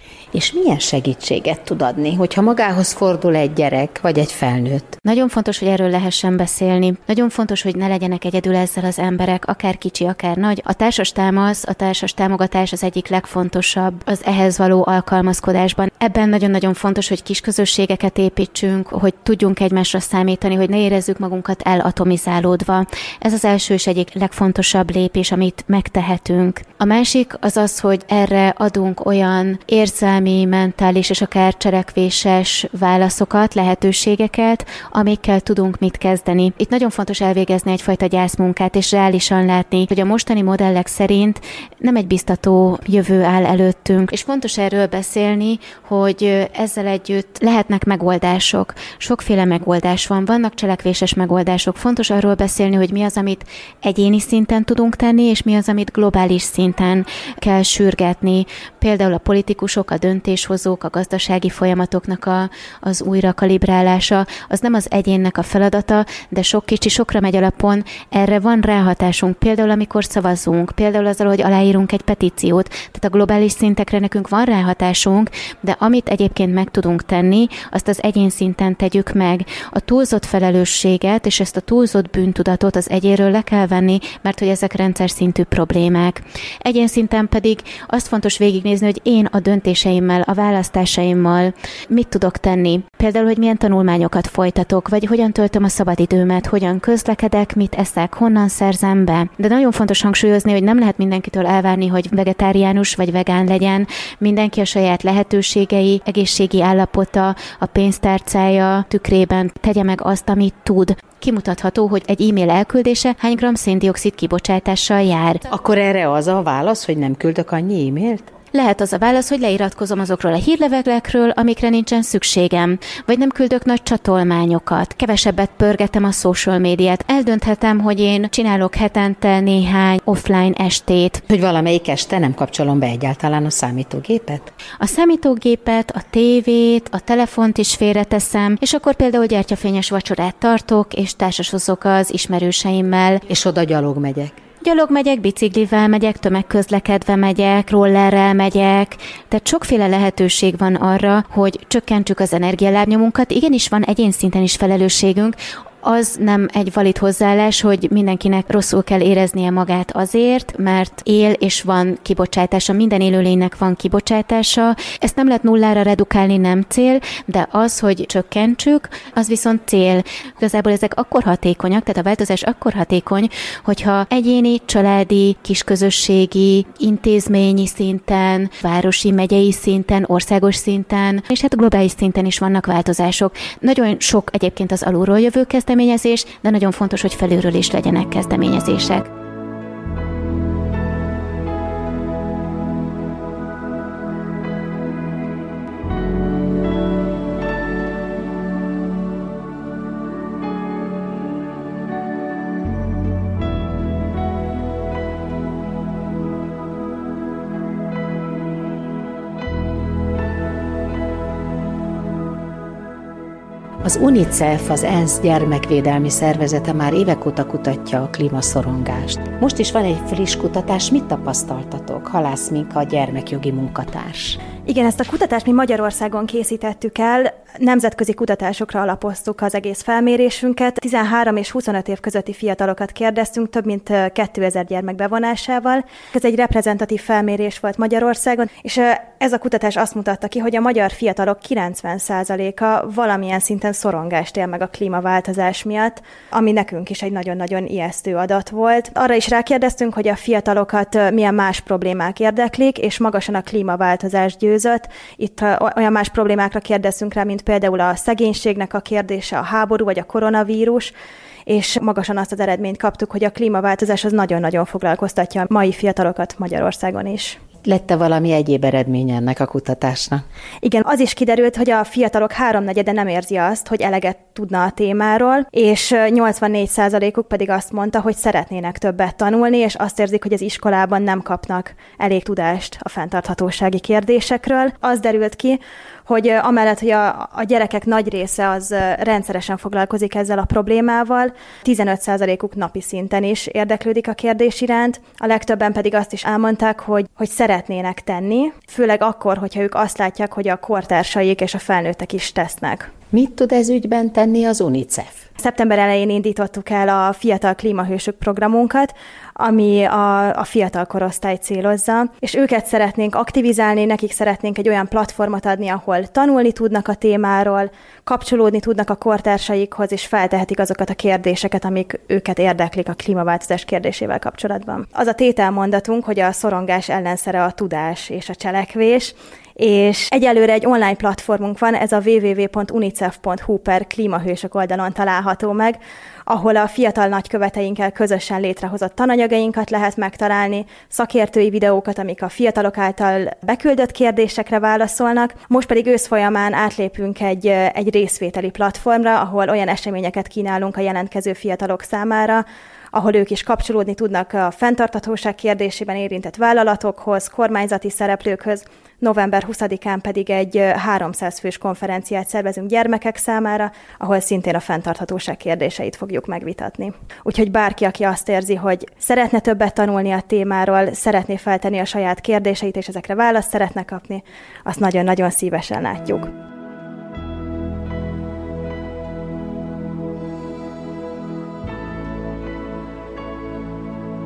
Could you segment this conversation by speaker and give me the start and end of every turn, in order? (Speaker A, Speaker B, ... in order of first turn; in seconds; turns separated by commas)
Speaker A: 0.3-5.0, Speaker B: 5.0-115.4, Speaker A: 115.5-118.3, Speaker B: 118.5-131.2, Speaker A: 131.3-134.5, Speaker B: 134.8-143.2, Speaker A: 143.3-144.4, Speaker B: 144.6-189.1, Speaker A: 213.8-224.4, Speaker C: 224.7-260.9, Speaker C: 261.5-267.4, Speaker A: 267.6-270.2, Speaker C: 270.6-302.9, Speaker A: 303.1-305.3, Speaker C: 305.4-376.3